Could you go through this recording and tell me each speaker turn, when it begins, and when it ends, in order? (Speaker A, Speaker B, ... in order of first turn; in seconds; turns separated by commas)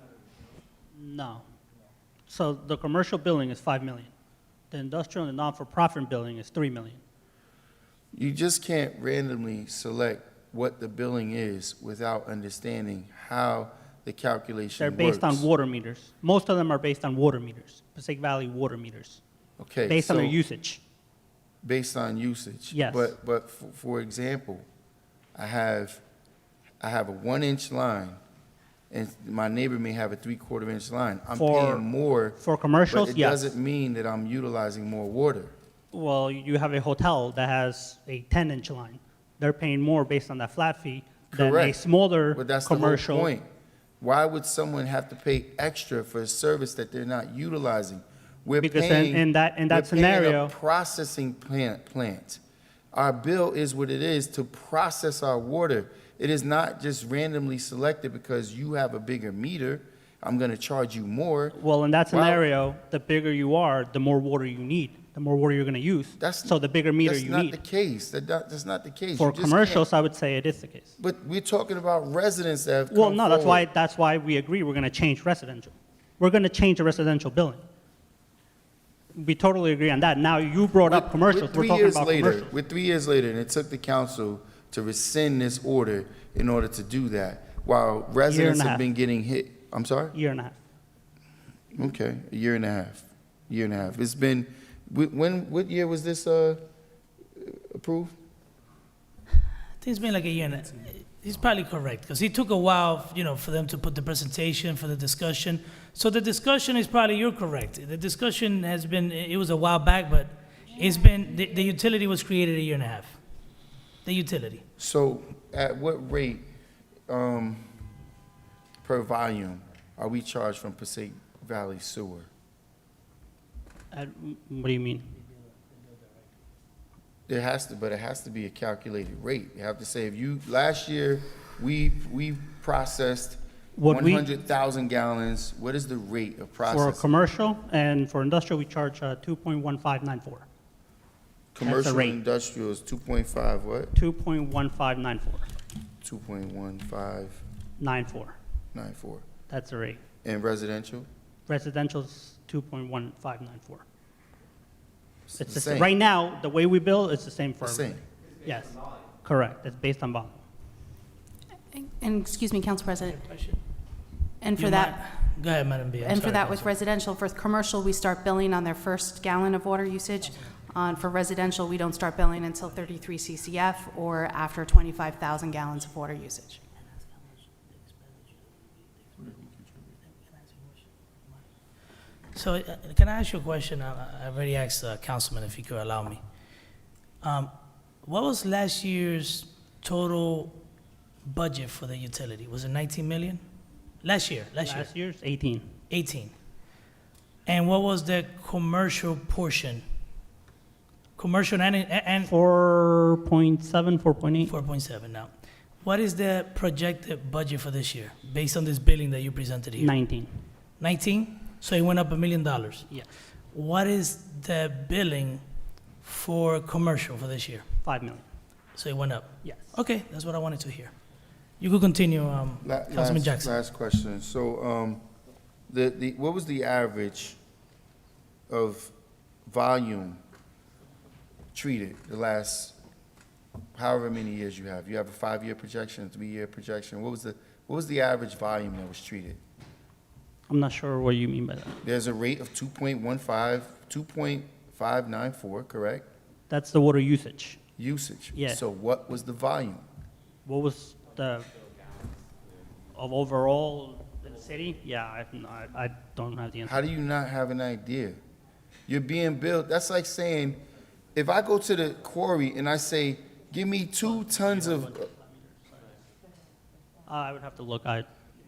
Speaker A: 0.9-1.4, Speaker A: 2.3-4.1, Speaker A: 4.7-7.0, Speaker B: 8.1-15.4, Speaker A: 14.8-19.2, Speaker B: 19.6-20.4, Speaker A: 19.9-20.8, Speaker B: 21.6-24.7, Speaker A: 22.7-23.1, Speaker B: 25.3-26.0, Speaker B: 26.8-28.2, Speaker B: 28.9-32.4, Speaker A: 31.3-33.5, Speaker B: 32.9-35.5, Speaker A: 35.9-43.3, Speaker B: 41.3-41.8, Speaker B: 42.3-43.5, Speaker B: 44.0-52.4, Speaker A: 48.6-50.5, Speaker B: 52.9-61.5, Speaker A: 61.5-67.6, Speaker B: 62.1-62.4, Speaker B: 66.2-69.9, Speaker A: 69.2-71.0, Speaker B: 71.0-73.6, Speaker A: 72.9-77.6, Speaker A: 79.1-82.5, Speaker B: 80.8-90.1, Speaker A: 88.3-88.8, Speaker A: 90.1-90.5, Speaker B: 91.7-96.6, Speaker B: 97.4-98.1, Speaker C: 99.8-113.1, Speaker C: 114.0-114.6, Speaker B: 114.8-116.5, Speaker B: 117.1-117.7, Speaker B: 118.8-122.3, Speaker A: 123.9-125.1, Speaker B: 127.3-137.1, Speaker A: 133.8-134.2, Speaker A: 136.6-140.4, Speaker B: 141.5-143.9, Speaker A: 141.6-142.2, Speaker A: 143.9-145.5, Speaker B: 146.0-147.4, Speaker A: 147.8-148.3, Speaker B: 148.7-149.2, Speaker A: 149.5-150.0, Speaker B: 150.2-151.1, Speaker A: 151.5-153.8, Speaker B: 155.3-155.9, Speaker A: 155.4-160.4, Speaker B: 157.6-158.0, Speaker D: 161.7-163.2, Speaker C: 163.0-163.6, Speaker D: 164.4-165.0, Speaker C: 164.8-166.7, Speaker D: 166.0-176.6, Speaker C: 177.2-178.2, Speaker B: 179.2-179.5, Speaker C: 180.1-180.8, Speaker C: 182.3-186.2, Speaker C: 187.2-187.5, Speaker C: 188.1-190.5, Speaker C: 191.3-193.4, Speaker C: 194.0-194.9, Speaker A: 194.6-195.7, Speaker C: 195.9-196.3, Speaker C: 197.5-199.8, Speaker C: 201.2-202.3, Speaker A: 202.3-204.5, Speaker C: 204.5-205.3, Speaker C: 205.8-209.9, Speaker A: 209.8-210.3, Speaker C: 210.8-212.8, Speaker C: 213.5-215.4, Speaker C: 216.0-217.6, Speaker A: 217.8-218.2, Speaker C: 218.8-220.9, Speaker A: 219.4-219.8, Speaker C: 221.6-223.5, Speaker B: 222.6-225.0, Speaker B: 225.7-227.4, Speaker B: 228.5-228.9, Speaker B: 229.4-230.2, Speaker B: 231.5-232.8, Speaker B: 233.7-239.4, Speaker A: 240.5-241.8, Speaker B: 241.8-246.1, Speaker A: 246.5-247.6, Speaker B: 247.8-249.8, Speaker A: 248.3-248.6, Speaker A: 250.4-251.5, Speaker A: 252.9-256.8, Speaker B: 256.6-258.2, Speaker B: 258.9-260.6, Speaker B: 261.1-265.1, Speaker A: 264.0-265.9, Speaker A: 267.1-268.1